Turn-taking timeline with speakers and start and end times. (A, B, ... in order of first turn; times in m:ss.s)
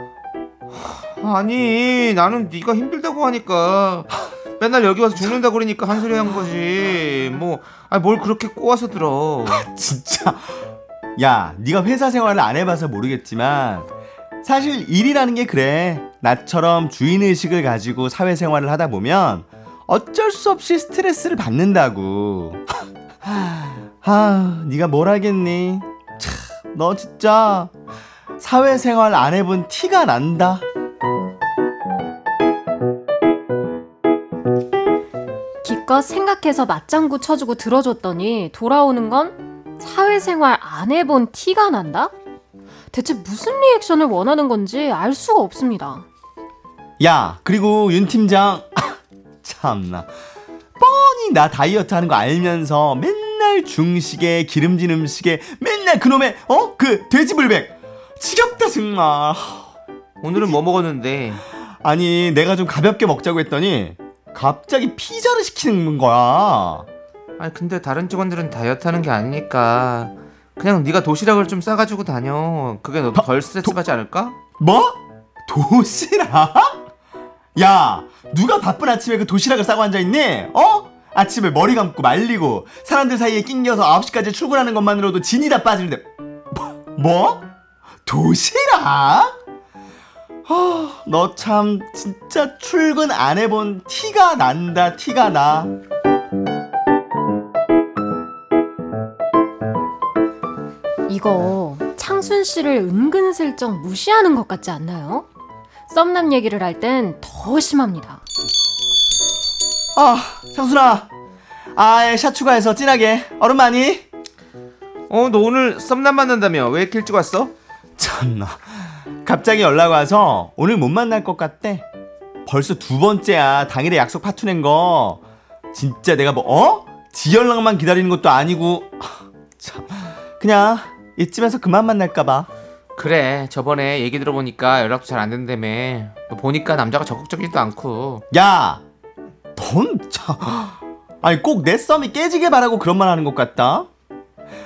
0:01.2-0:09.6 A
0:09.5-0:10.5 B
0:11.2-0:13.9 B
0:14.4-0:22.6 B
0:23.2-0:27.7 B
0:28.4-0:30.6 B
0:35.6-0:42.1 C
0:42.9-0:46.0 C
0:47.0-0:50.1 B
0:50.8-0:59.7 B
1:00.2-1:01.4 A
1:01.8-1:06.8 B
1:07.4-1:14.4 A
1:13.1-1:13.8 B
1:14.6-1:16.8 B
1:17.6-1:27.5 B
1:28.0-1:29.4 B
1:30.5-1:35.7 B
1:41.1-1:45.2 C
1:45.9-1:48.2 C
1:50.0-1:51.1 B
1:51.8-1:54.0 B
1:55.1-1:57.5 A
1:58.0-2:01.8 B
2:02.4-2:05.2 B
2:05.7-2:12.5 B
2:13.0-2:18.2 A
2:18.3-2:18.8 B
2:19.6-2:23.9 B